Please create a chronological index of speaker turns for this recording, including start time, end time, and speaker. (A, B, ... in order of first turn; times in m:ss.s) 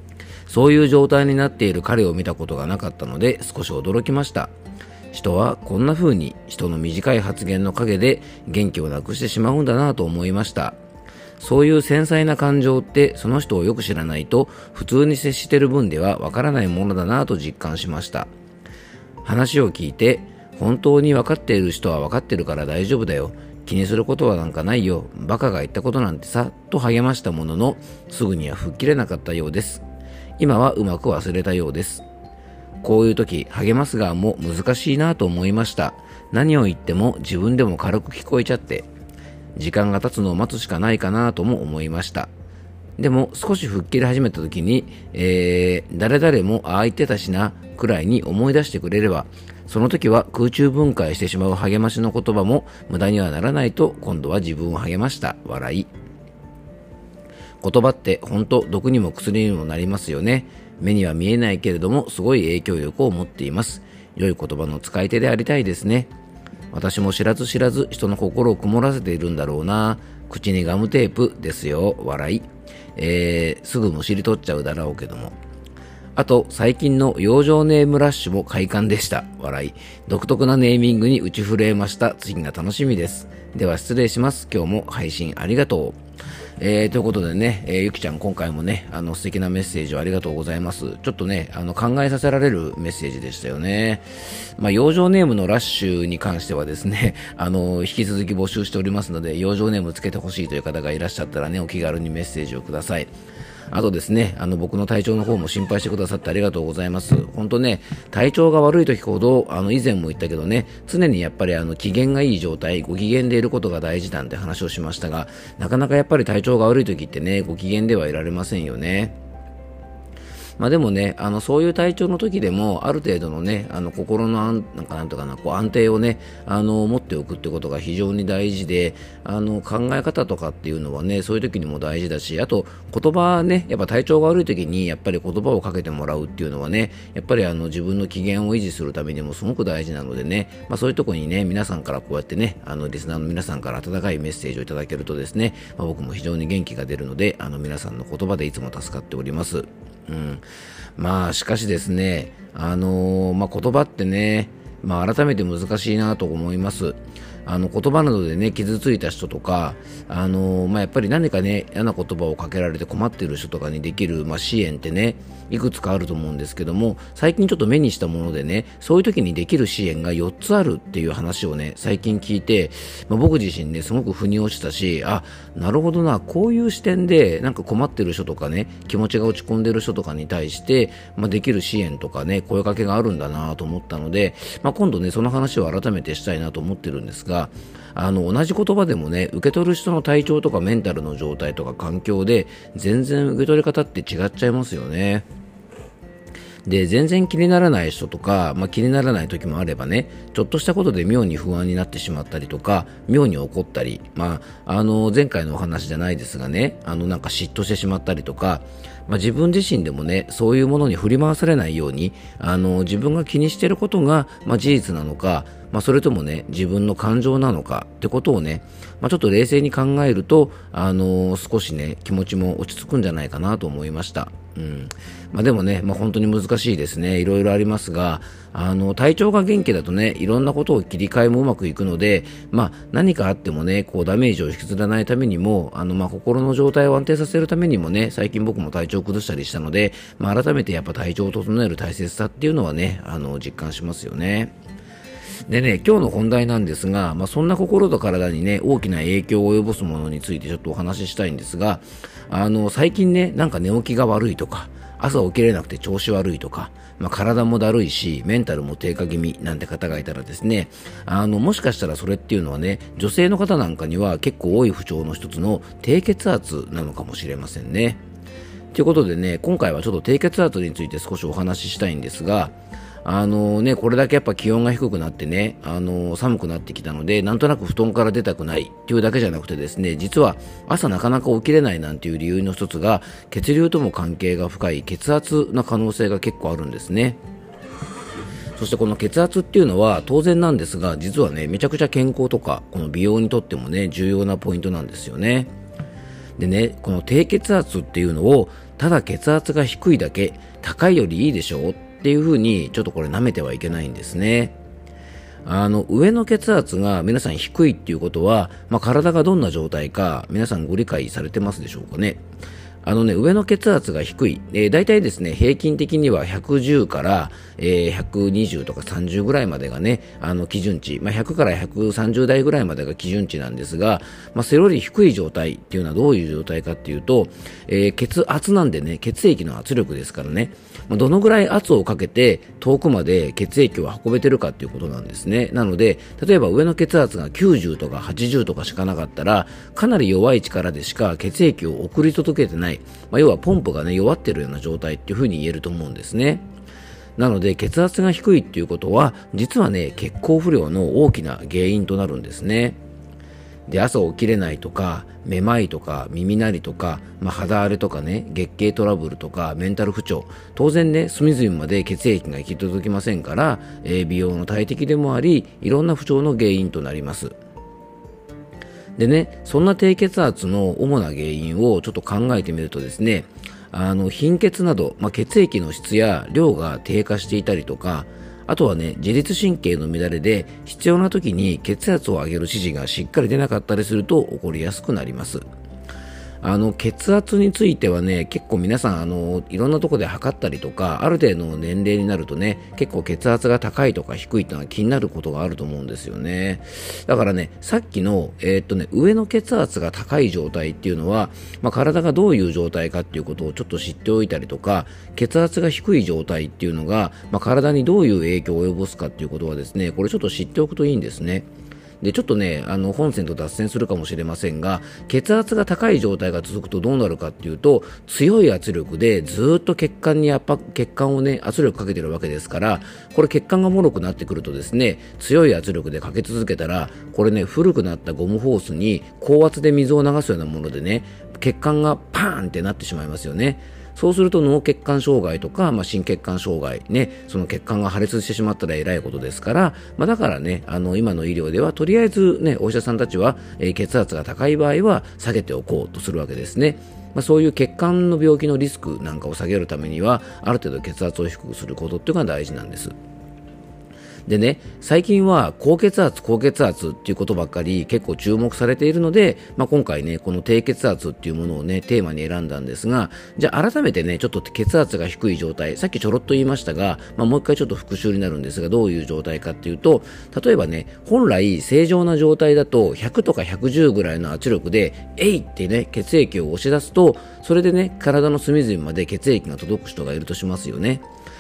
0:00.5-0:04.5 A
0:05.1-0:10.8 A
0:11.4-0:18.3 A
0:19.2-0:29.8 A
0:30.4-0:32.0 A
0:32.8-0:38.9 A
0:39.6-0:42.3 A
0:43.0-0:55.9 A
0:57.6-1:06.1 A
1:06.7-1:15.4 A
1:16.2-1:26.0 A
1:26.6-1:43.1 A
1:43.7-1:59.2 A
2:00.6-2:30.4 A
2:31.0-3:15.3 A
3:16.6-4:04.5 A
4:05.5-4:28.0 A
4:28.7-4:47.2 A
4:48.6-4:55.5 A
4:56.4-5:04.6 A
5:05.4-5:12.2 A
5:12.8-5:46.4 A
5:47.2-5:52.8 A
5:53.7-6:07.4 A
6:09.0-6:25.4 A
6:26.4-6:51.5 A
6:52.0-7:33.0 A
7:34.3-8:01.0 A